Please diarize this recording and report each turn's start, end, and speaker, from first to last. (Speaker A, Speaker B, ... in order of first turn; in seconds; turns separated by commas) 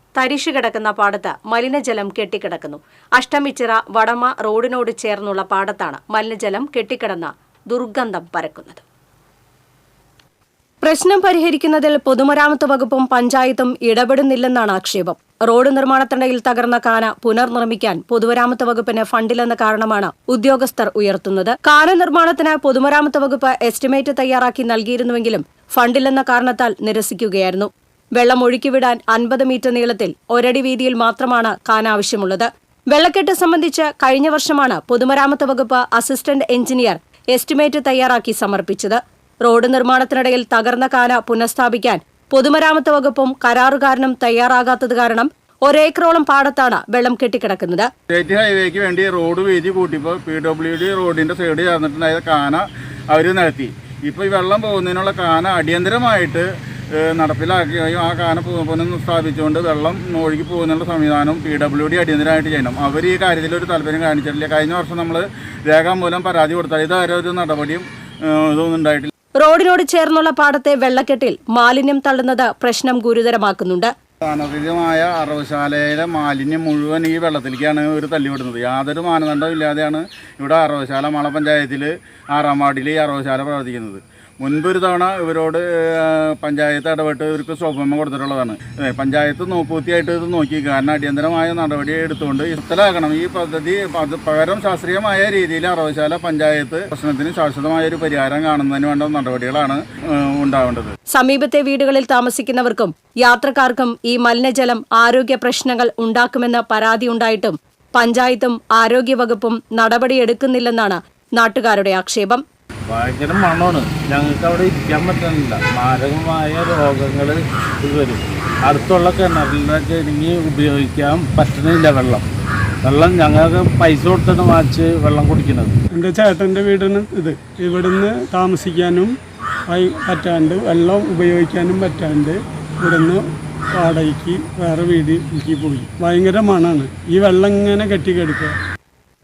Speaker A: 0.2-8.8, Speaker A: 10.8-47.9, Speaker B: 48.1-56.5, Speaker B: 57.0-69.1, Speaker A: 69.4-73.9, Speaker B: 74.3-100.9, Speaker A: 101.1-112.4, Speaker C: 112.9-122.2, Speaker C: 122.8-125.8, Speaker D: 125.9-129.2, Speaker D: 129.7-133.3, Speaker D: 133.8-138.6